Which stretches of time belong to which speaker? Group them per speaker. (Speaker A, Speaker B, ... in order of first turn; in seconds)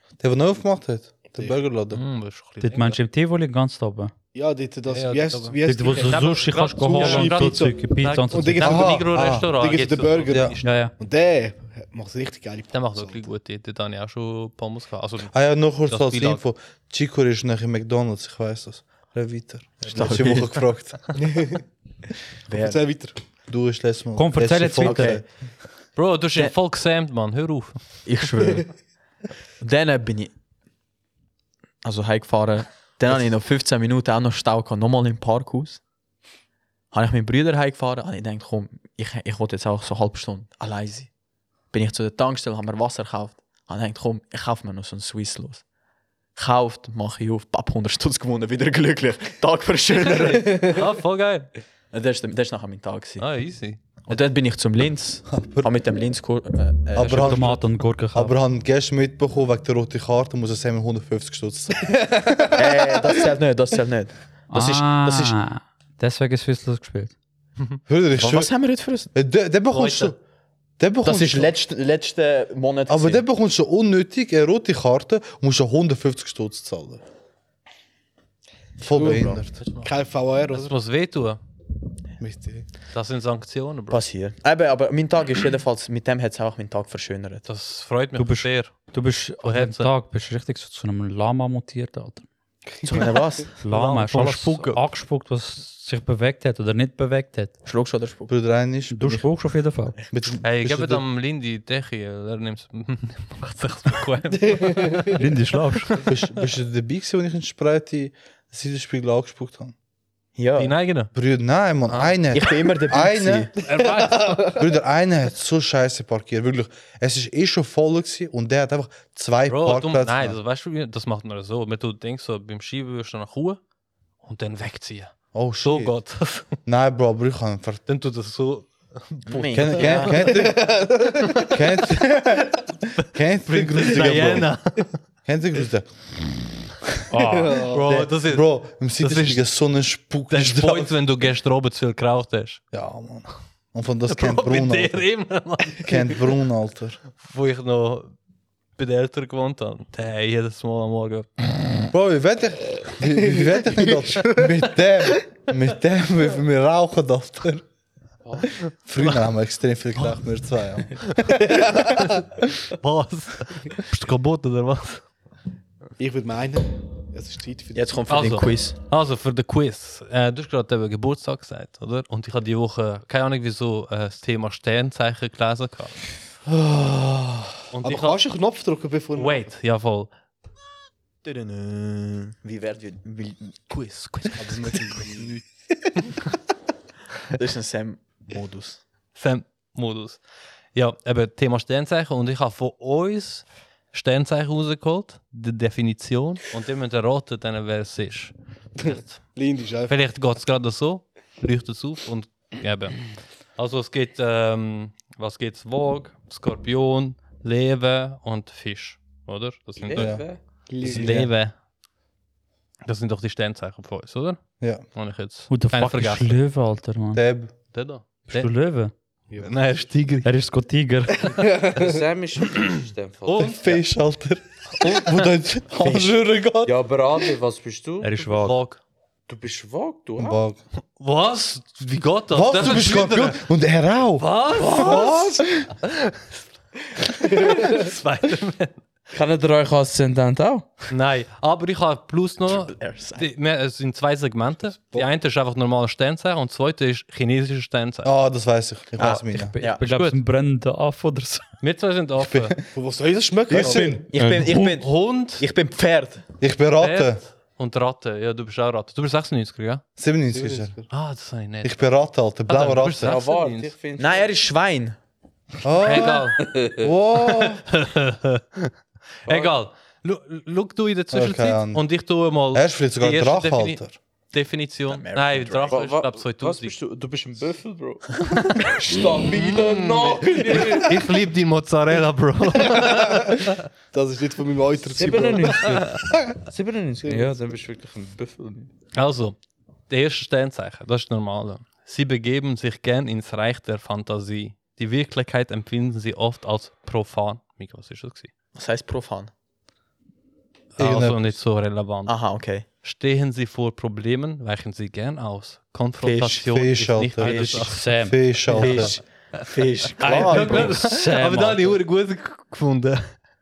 Speaker A: 0.2-2.0, 8.6-9.5, 10.3-10.6, 15.3-21.2, 23.5-25.2, 55.3-55.7, 56.9-62.6, 67.9-68.5, 69.1-70.2, 70.8-71.5, 72.9-77.0, 78.8-79.6, 82.2-82.7, 98.3-99.3, 100.1-101.0, 106.0-109.8, 111.1-113.5, 114.5-120.4, 125.3-125.9, 126.7-127.8, 129.5-130.8, 131.4-134.6, 135.2-136.2, 137.9-140.9, 142.7-145.1, 145.8-147.0, 151.9-157.7, 158.8-161.5, 184.4-185.4, 209.9-210.2, 217.1-217.5, 223.4-226.8, 230.2-230.6, 232.3-235.7, 248.0-249.5, 252.2-252.6, 253.6-253.9, 256.4-257.2, 260.0-260.8, 261.6-263.2, 265.6-267.6, 271.1-271.9, 272.5-273.9, 300.8-301.4, 306.4-309.0, 310.0-310.7
Speaker B: 1.9-3.0, 4.9-10.8, 12.7-15.3, 15.9-16.4, 26.0-27.9, 50.6-51.5, 53.2-53.8, 69.7-70.2, 79.6-79.9, 80.5-81.4, 82.9-84.0, 87.5-89.9, 93.7-94.8, 100.4-105.2, 105.8-106.2, 110.6-111.1, 111.9-112.2, 113.7-114.3, 119.5-123.6, 124.2-126.5, 127.9-130.3, 133.0-134.9, 137.7-139.5, 140.3-142.6, 144.1-146.2, 147.2-148.1, 148.8-151.4, 159.0-159.2, 159.9-160.2, 161.0-165.1, 168.1-176.0, 177.7-178.2, 179.2-180.1, 181.2-182.3, 183.7-185.0, 189.2-190.2, 190.8-199.2, 199.9-211.6, 212.9-216.3, 217.7-218.5, 219.4-220.3, 223.3-223.8, 224.8-225.3, 228.4-228.8, 231.0-233.4, 234.2-235.1, 235.8-236.4, 237.1-238.8, 240.9-248.1, 249.7-250.2, 251.6-252.6, 254.6-255.5, 256.8-259.8, 260.9-261.8, 262.5-263.7, 265.8-266.4, 267.3-268.7, 269.2-276.8, 278.3-278.8, 279.4-283.6, 288.9-289.4, 289.9-298.3, 300.8-307.9, 308.5-309.0, 310.0-313.1
Speaker C: 2.6-4.1, 5.6-8.7, 10.6-10.9, 24.2-25.2, 57.0-58.3, 64.5-67.2, 88.2-92.3, 93.6-97.5, 98.9-100.0, 105.1-105.9, 137.1-137.6, 215.5-217.2, 218.3-218.9, 220.2-221.3, 228.0-228.6, 249.3-251.4, 254.2-254.6, 307.3-308.2, 310.3-311.8
Speaker D: 4.3-7.8, 8.3-13.2, 21.1-21.6, 22.5-23.2, 50.4-50.8, 62.0-62.4, 78.9-80.7, 104.5-105.1, 113.8-114.7, 130.3-131.6, 137.2-138.0, 153.4-154.4, 161.4-162.0, 166.0-168.0, 176.5-179.5, 198.8-199.9, 210.7-211.3, 219.3-219.6, 221.2-222.0, 252.7-254.1, 260.3-260.9, 282.6-286.1, 287.0-287.3
Speaker E: 19.9-20.6, 22.5-22.8, 24.8-25.2, 28.1-28.7, 29.6-30.3, 31.8-35.8, 36.9-41.1, 41.7-45.6, 46.4-50.8, 51.9-53.3, 54.1-57.5, 62.6-65.4, 68.2-69.1, 71.0-73.2, 83.9-87.5, 92.8-93.5, 97.7-98.3, 110.3-110.8, 112.3-113.5, 129.3-130.4, 167.7-168.8, 182.4-183.6, 187.3-188.8, 242.5-243.3, 249.0-249.8, 253.5-256.2, 264.0-265.0, 274.9-275.8, 298.6-299.3, 302.1-302.7, 306.0-306.4, 307.2-307.7, 308.6-310.8
Speaker F: 79.0-79.4, 158.2-158.5, 209.8-210.9, 221.7-223.6, 226.6-228.4, 229.3-230.4, 234.6-235.3, 239.1-240.7, 263.0-264.3, 266.4-266.9, 269.3-269.5, 275.7-278.1, 278.6-281.0, 284.9-288.7